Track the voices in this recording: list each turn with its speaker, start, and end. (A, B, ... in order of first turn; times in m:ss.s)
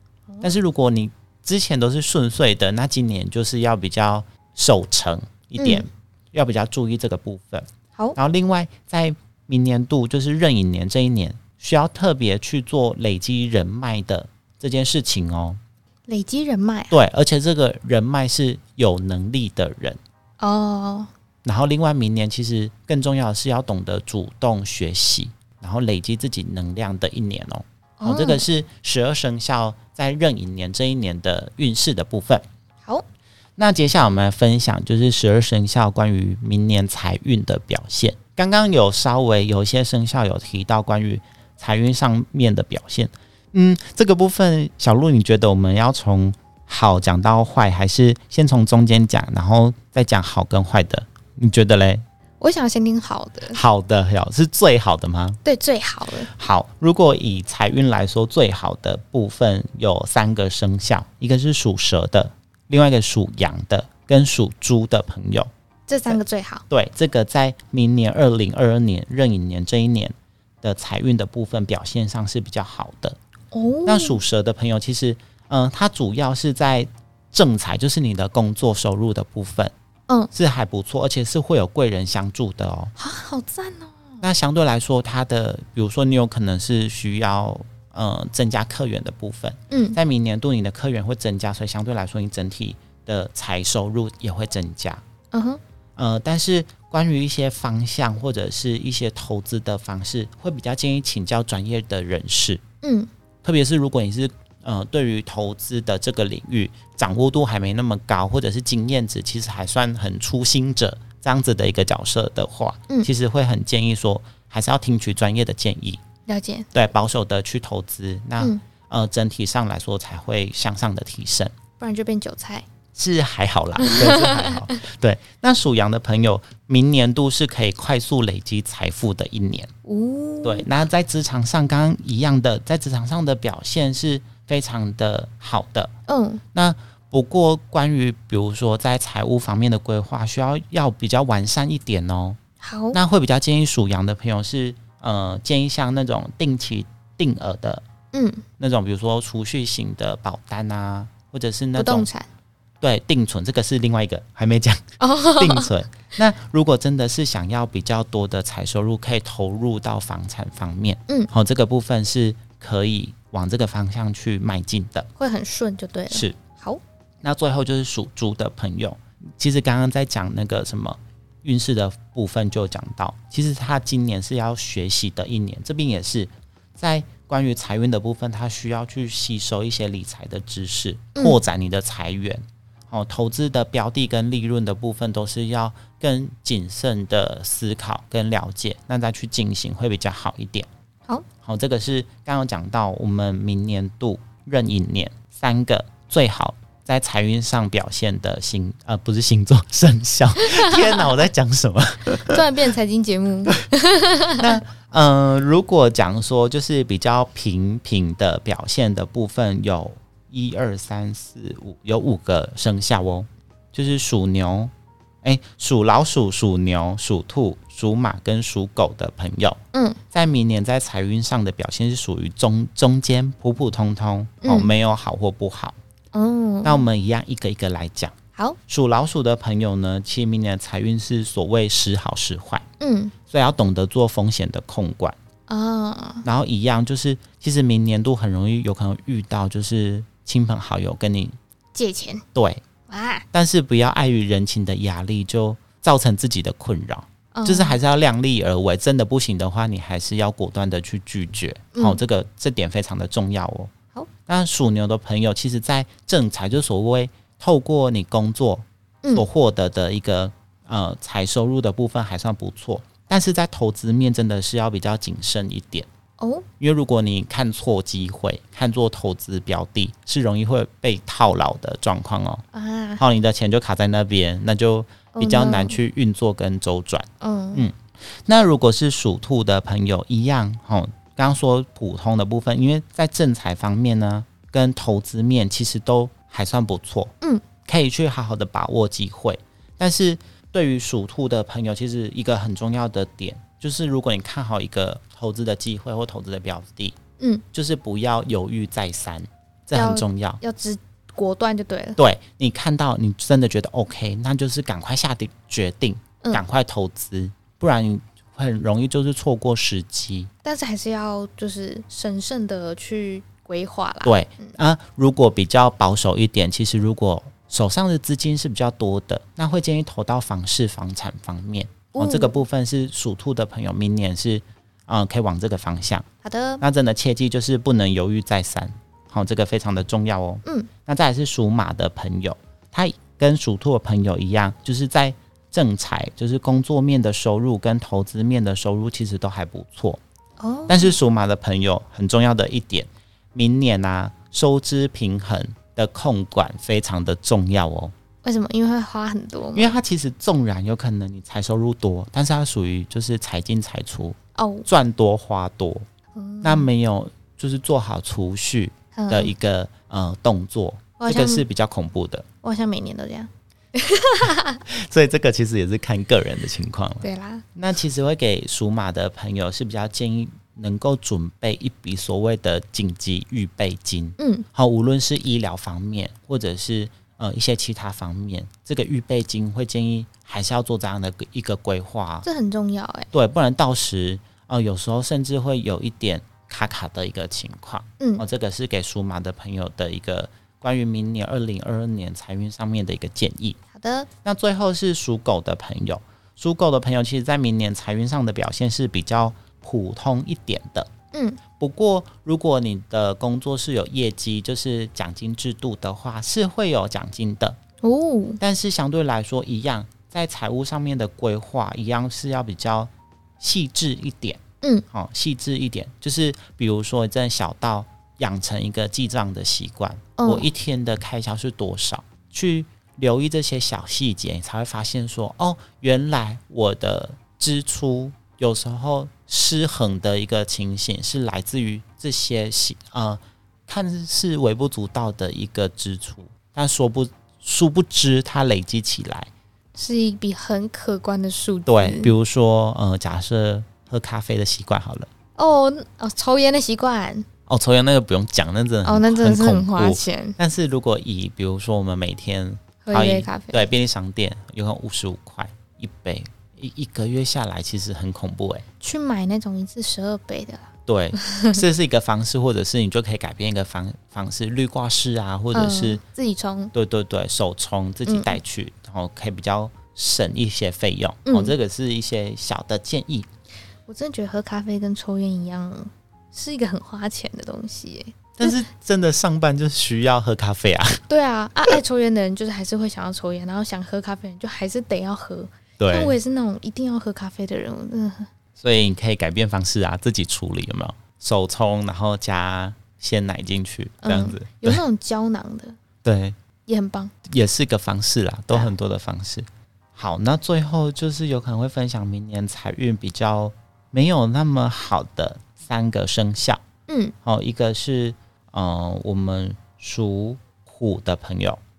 0:00.3-0:00.6 A
0:00.4-0:15.6 B
0:05.6-0:05.9 A
0:16.1-0:17.0 A
0:16.9-0:20.0 B
0:20.4-0:21.1 A
0:21.4-0:32.4 B
0:28.0-0:28.4 A
0:33.6-0:52.0 B
0:52.4-0:53.6 A
0:53.5-0:55.4 B
0:55.4-0:56.3 A
0:56.2-1:05.5 B
1:05.9-1:06.6 A
1:06.7-1:13.2 B
1:13.5-1:14.2 A
1:13.8-1:19.7 B
1:20.3-1:22.9 B
1:23.0-1:24.2 A
1:24.2-1:35.0 B
1:29.7-1:30.0 A
1:35.3-1:35.6 A
1:36.0-1:42.6 B
1:42.8-1:43.1 A
1:43.4-1:56.0 B
1:56.3-1:56.7 A
1:56.7-2:01.5 B
2:01.8-2:02.7 A
2:02.9-2:09.7 B
2:03.8-2:04.6 A
2:09.8-2:10.7 A
2:10.4-2:15.9 B
2:16.1-2:16.4 A
2:16.5-2:22.4 B
2:22.6-2:23.0 A
2:22.9-2:27.8 B
2:28.1-2:28.4 A
2:28.6-2:32.1 B
2:31.8-2:32.3 A
2:32.8-2:45.1 B
2:35.0-2:35.7 A
2:45.2-2:46.8 A
2:46.1-2:46.4 B
2:47.2-3:10.7 B
3:11.4-3:22.4 B
3:20.4-3:21.1 A
3:22.1-3:24.6 A
3:24.4-3:34.7 B
3:35.2-3:39.6 B
3:39.7-3:40.0 A
3:40.1-3:45.7 B
3:44.4-3:44.7 A
3:46.1-3:46.8 A
3:46.6-3:48.1 B
3:48.7-3:52.6 B
3:52.8-3:53.1 A
3:53.3-3:55.2 B
3:55.5-3:56.2 A
3:56.2-4:01.3 B
4:01.7-4:02.2 A
4:02.3-4:02.6 B
4:02.9-4:03.2 A
4:03.3-4:13.7 B
4:07.3-4:07.8 A
4:11.7-4:12.0 A
4:14.3-4:25.9 B
4:26.2-4:26.5 A
4:26.6-4:32.4 B
4:32.5-4:33.0 A
4:33.0-4:47.1 B
4:35.2-4:35.8 A
4:37.2-4:37.7 A
4:47.6-4:57.0 B
4:57.2-4:57.4 A
4:57.5-5:00.4 B
4:59.7-5:02.0 A
5:02.0-5:10.3 B
5:10.4-5:14.5 A
5:14.0-5:26.0 B
5:21.9-5:22.4 A
5:26.2-5:26.6 A
5:26.6-5:40.0 B
5:40.4-5:40.9 A
5:40.7-5:47.9 B
5:48.2-5:49.7 A
5:49.5-5:55.8 B
5:54.4-5:54.7 A
5:56.2-5:56.7 A
5:56.4-6:02.2 B
5:58.9-5:59.3 A
6:01.0-6:01.4 A
6:02.4-6:04.6 A
6:04.6-6:22.2 B
6:07.0-6:07.4 A
6:14.2-6:14.4 A
6:22.2-6:23.1 A
6:23.1-6:33.6 B
6:28.0-6:28.2 A
6:33.7-6:34.1 A
6:34.2-6:40.9 B
6:41.1-6:41.4 A
6:41.6-6:47.6 B
6:47.8-6:48.4 A
6:48.4-7:19.3 B
7:00.2-7:00.5 A
7:19.8-7:22.1 A
7:21.7-7:25.1 B
7:25.4-7:27.2 A
7:27.5-7:38.6 B
7:28.8-7:30.4 A
7:32.8-7:33.7 A
7:38.8-7:41.6 A
7:40.9-7:46.0 B
7:45.5-7:46.7 A
7:46.7-7:53.3 B
7:48.1-7:48.4 A
7:51.2-7:51.5 A
7:53.9-7:58.6 A
7:58.4-8:01.0 B
8:01.1-8:08.3 A
8:05.8-8:06.1 B
8:08.6-8:14.8 B
8:14.0-8:15.8 A
8:16.0-8:16.4 B
8:16.7-8:17.1 A
8:17.2-8:26.6 B
8:26.9-8:27.1 A
8:27.2-8:31.6 B